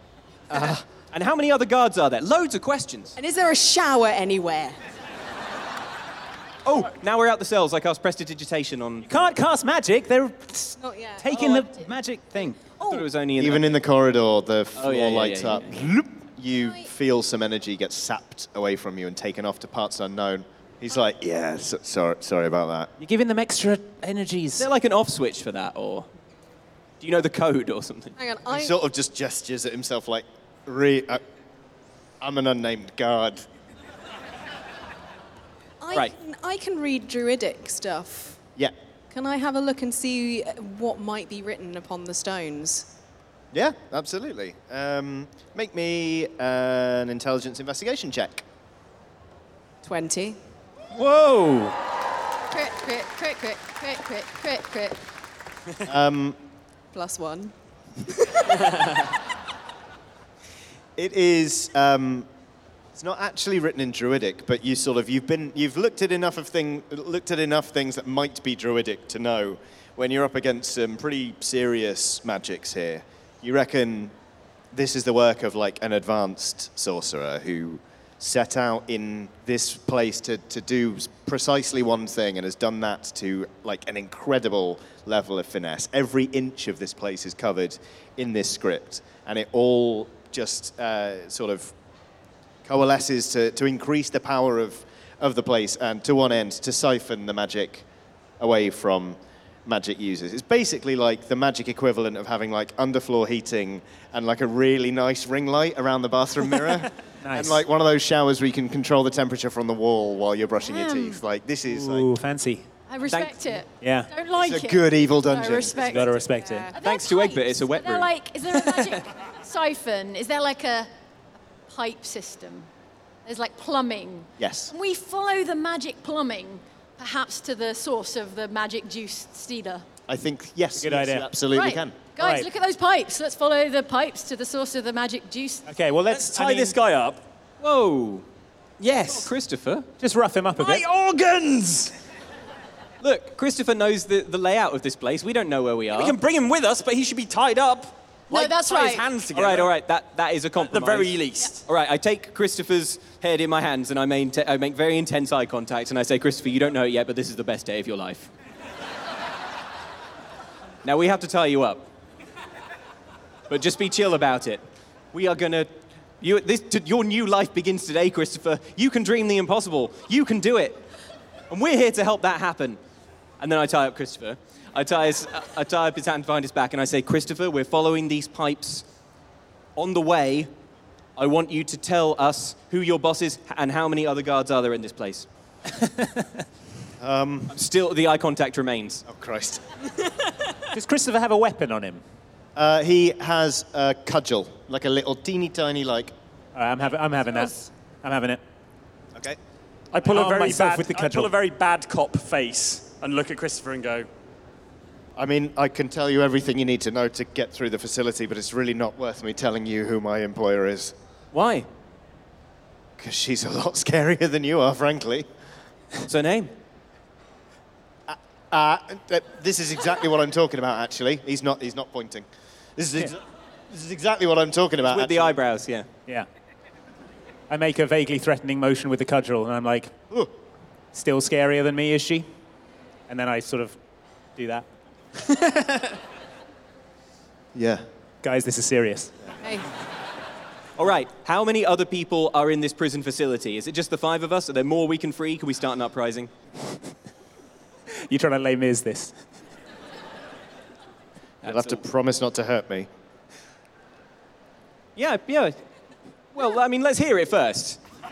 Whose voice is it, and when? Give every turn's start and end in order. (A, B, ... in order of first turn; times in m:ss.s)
0:00.5-0:00.8 A
0:01.0-0:03.2 B
0:03.2-0:04.8 C
0:06.6-0:09.1 B
0:09.0-0:12.8 D
0:10.8-0:11.6 C
0:12.8-0:13.7 B
0:13.4-0:22.9 A
0:14.8-0:15.8 B
0:23.0-0:24.7 D
0:24.6-0:26.1 B
0:27.0-0:28.1 B
0:28.2-0:28.8 C
0:28.5-0:31.2 A
0:32.2-0:33.4 A
0:35.8-0:38.4 C
0:39.1-0:42.9 C
0:43.5-0:48.4 A
0:49.8-0:50.4 C
0:50.9-0:51.8 D
0:52.5-0:55.0 E
0:55.8-0:56.4 A
0:56.9-0:58.7 C
1:01.0-1:02.3 A
1:03.0-1:14.1 A
1:14.7-1:31.7 A
1:32.6-1:37.8 A
1:38.4-1:52.1 A
1:47.2-1:47.6 D
1:50.6-1:51.2 E
1:51.7-1:52.7 D
1:52.9-2:00.9 E
1:53.1-1:53.5 B
1:53.8-1:54.1 D
1:54.4-1:56.1 A
1:55.8-1:56.7 D
1:56.3-1:56.8 C
1:56.8-1:58.1 B
2:01.7-2:02.7 E
2:03.2-2:09.8 E
2:04.4-2:04.7 A
2:10.1-2:12.0 A
2:10.8-2:11.3 D
2:11.5-2:15.7 E
2:12.2-2:12.5 D
2:15.7-2:16.8 D
2:16.1-2:17.2 F
2:17.6-2:18.3 B
2:18.8-2:19.3 F
2:19.0-2:19.9 B
2:20.0-2:20.9 D
2:20.6-2:21.9 F
2:23.0-2:26.2 B
2:25.9-2:29.7 F
2:28.3-2:29.0 E
2:29.3-2:38.3 B
2:30.6-2:31.7 F
2:40.8-2:41.9 B
2:43.5-2:50.8 B
2:51.5-2:52.8 B
2:53.4-2:58.8 B
2:59.8-3:00.5 B
3:01.2-3:05.3 B
3:05.7-3:06.4 D
3:07.0-3:07.6 A
3:07.5-3:09.0 B
3:09.1-3:09.6 A
3:10.7-3:12.0 D
3:12.6-3:16.1 A
3:16.6-3:18.4 D
3:19.9-3:24.1 F
3:20.1-3:21.3 D
3:25.2-3:30.9 A
3:31.3-3:31.7 B
3:33.0-3:35.3 A
3:36.1-3:36.5 B
3:38.1-3:45.4 A
3:44.9-3:45.9 B
3:47.5-3:50.0 D
3:50.9-3:52.3 D
3:53.1-3:53.8 D
3:54.4-3:54.7 D
3:57.6-3:57.8 A
3:58.2-3:59.2 D
3:59.4-3:59.7 C
4:00.8-4:06.3 B
4:08.0-4:09.2 D
4:11.4-4:12.9 A
4:11.5-4:11.8 B
4:15.0-4:15.6 B
4:16.3-4:17.8 B